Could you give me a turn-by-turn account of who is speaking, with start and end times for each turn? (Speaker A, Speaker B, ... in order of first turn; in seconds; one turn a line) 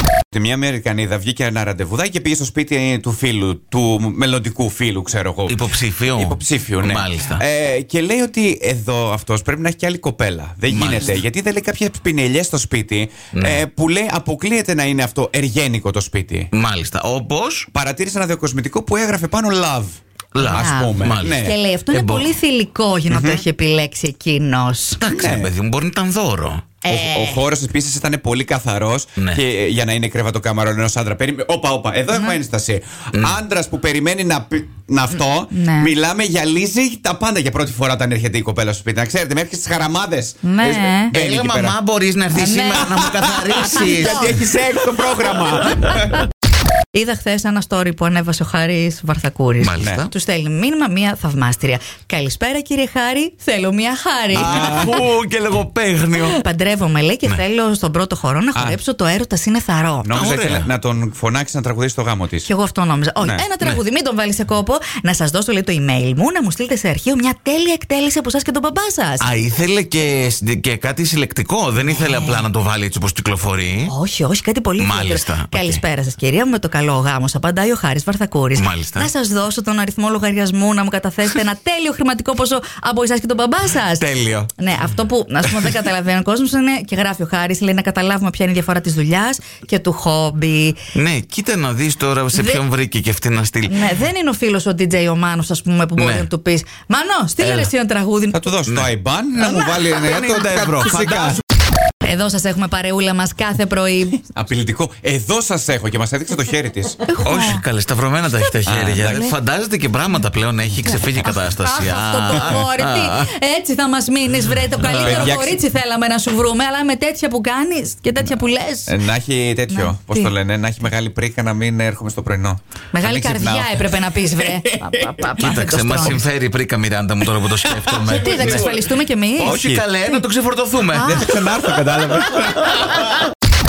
Speaker A: 0.3-16.5
Speaker B: 5.5-7.4
Speaker B: 10.7-11.2
Speaker B: 13.3-13.6
Speaker B: 16.5-17.7
Speaker A: 17.7-21.6
Speaker B: 20.4-22.3
Speaker C: 20.4-25.0
Speaker A: 23.1-23.4
Speaker B: 25.0-26.7
Speaker A: 25.1-25.5
Speaker C: 26.8-27.4
Speaker A: 26.9-41.8
Speaker C: 35.5-35.9
Speaker C: 40.4-41.1
Speaker B: 41.1-44.5
Speaker C: 42.3-43.1
Speaker A: 42.6-46.2
Speaker C: 43.7-44.4
Speaker C: 46.9-54.9
Speaker B: 49.6-50.1
Speaker A: 54.3-55.0
Speaker B: 54.3-56.4
Speaker C: 56.2-60.2
Speaker A: 60.0-62.5
Speaker B: 60.1-60.7
Speaker C: 62.5-69.3
Speaker A: 63.2-63.5
Speaker B: 69.2-73.9
Speaker C: 71.9-72.5
Speaker C: 73.9-90.8
Speaker B: 74.8-75.8
Speaker B: 78.6-79.1
Speaker B: 84.0-84.5
Speaker B: 90.9-93.8
Speaker C: 92.3-92.6
Speaker C: 93.7-98.4
Speaker B: 96.0-96.3
Speaker B: 97.4-97.7
Speaker A: 98.3-101.4
Speaker B: 98.7-101.4
Speaker C: 102.0-104.2
Speaker A: 104.3-107.1
Speaker C: 107.1-107.6
Speaker B: 107.2-113.3
Speaker A: 108.7-109.3
Speaker C: 110.9-119.0
Speaker B: 114.8-115.4
Speaker A: 114.9-115.6
Speaker A: 118.9-125.3
Speaker C: 119.7-120.3
Speaker C: 122.9-126.2
Speaker B: 125.4-128.8
Speaker A: 127.7-128.8
Speaker C: 128.1-129.6
Speaker B: 129.4-131.4
Speaker A: 129.4-129.9
Speaker A: 130.9-133.1